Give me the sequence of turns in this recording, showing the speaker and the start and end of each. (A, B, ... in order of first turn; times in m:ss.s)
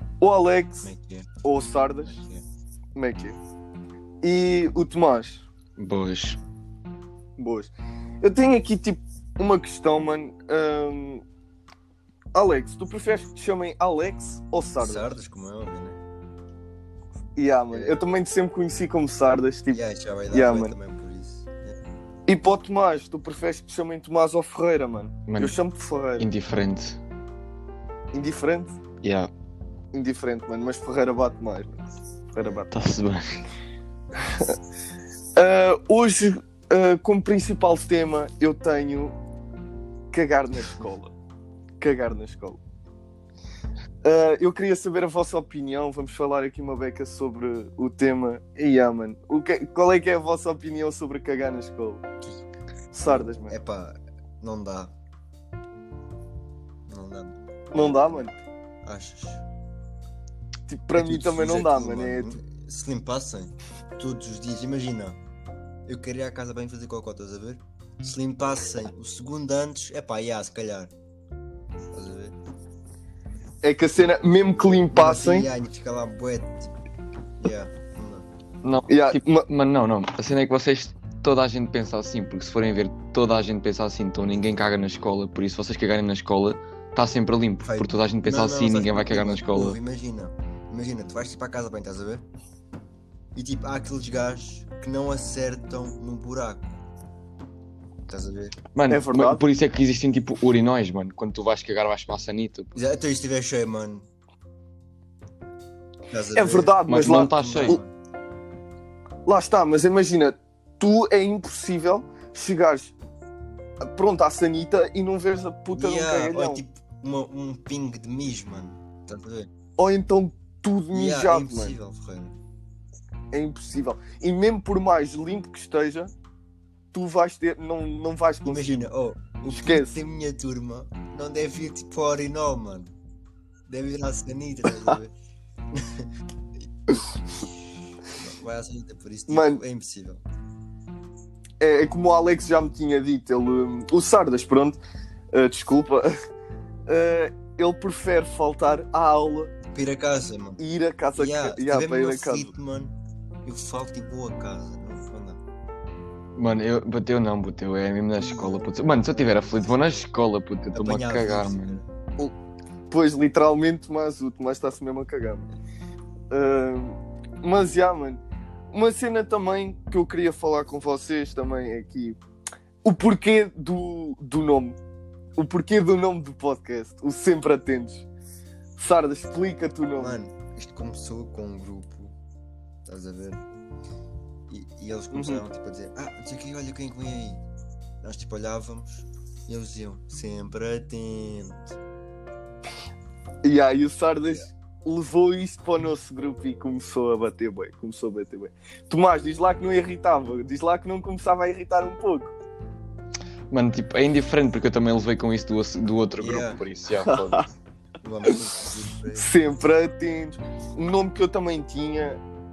0:00.2-0:00.9 A
0:00.8-0:01.4 B
0:01.4-0:02.2 A
0:02.0-0:02.4 B
0:02.9-0:03.4 A
0:04.2-0:05.5 A
0:05.8-0:06.4 C
0:07.4-0:11.2 A
0:12.3-0:15.1 A
0:14.8-0:16.0 B
0:17.4-0:20.7 A
0:17.7-0:18.0 B
0:19.7-0:21.8 B
0:22.3-0:26.3 A
0:25.3-0:25.6 C
0:26.2-0:27.0 C
0:28.1-0:28.8 A
0:29.0-0:29.3 C
0:29.9-0:31.8 A
0:32.3-0:32.7 A
0:32.4-0:32.6 B
0:32.7-0:33.2 C
0:34.2-0:34.5 A
0:35.4-0:39.1 A
0:40.1-0:41.1 A
0:41.8-0:42.6 A
0:44.0-0:52.0 A
0:52.9-0:53.5 A
0:53.0-0:55.0 B
0:56.9-0:58.3 B
0:57.7-0:58.3 A
0:58.8-0:59.4 B
1:00.7-1:02.4 A
1:01.0-1:05.2 B
1:05.9-1:10.9 B
1:11.9-1:12.4 B
1:13.6-1:15.5 A
1:14.5-1:16.8 B
1:17.4-1:18.3 B
1:18.6-1:29.8 C
1:18.9-1:19.4 A
1:27.6-1:32.2 B
1:33.3-1:36.8 B
1:38.1-1:38.6 B
1:38.7-1:42.8 C
1:38.9-1:39.4 A
1:42.8-1:44.1 B
1:46.1-1:47.9 B
1:46.3-1:47.8 A
1:46.8-1:47.8 C
1:49.2-1:52.9 A
1:53.8-1:56.6 A
1:55.7-1:59.5 B
1:59.8-2:01.8 A
2:00.9-2:02.3 B
2:03.3-2:06.1 A
2:06.9-2:08.9 A
2:08.4-2:12.9 B
2:09.5-2:10.0 A
2:13.7-2:15.1 B
2:15.7-2:16.0 B
2:18.2-2:20.2 B
2:19.3-2:19.6 A
2:21.6-2:24.8 A
2:25.3-2:26.1 A
2:26.9-2:29.5 A
2:29.7-2:30.6 B
2:30.6-2:32.5 A
2:31.2-2:35.4 B
2:36.4-2:41.8 C
2:38.2-2:40.1 B
2:40.7-2:41.9 B
2:42.9-2:45.5 A
2:46.3-2:52.2 A
2:52.8-2:54.8 A
2:55.4-2:58.1 A
2:58.8-3:00.2 A
3:00.0-3:02.2 B
3:02.8-3:03.4 B
3:04.5-3:07.4 B
3:05.1-3:05.4 A
3:08.0-3:11.8 B
3:13.4-3:22.3 A
3:23.5-3:27.5 C
3:26.2-3:26.6 B
3:27.0-3:27.4 A
3:28.0-3:29.5 B
3:29.1-3:32.2 A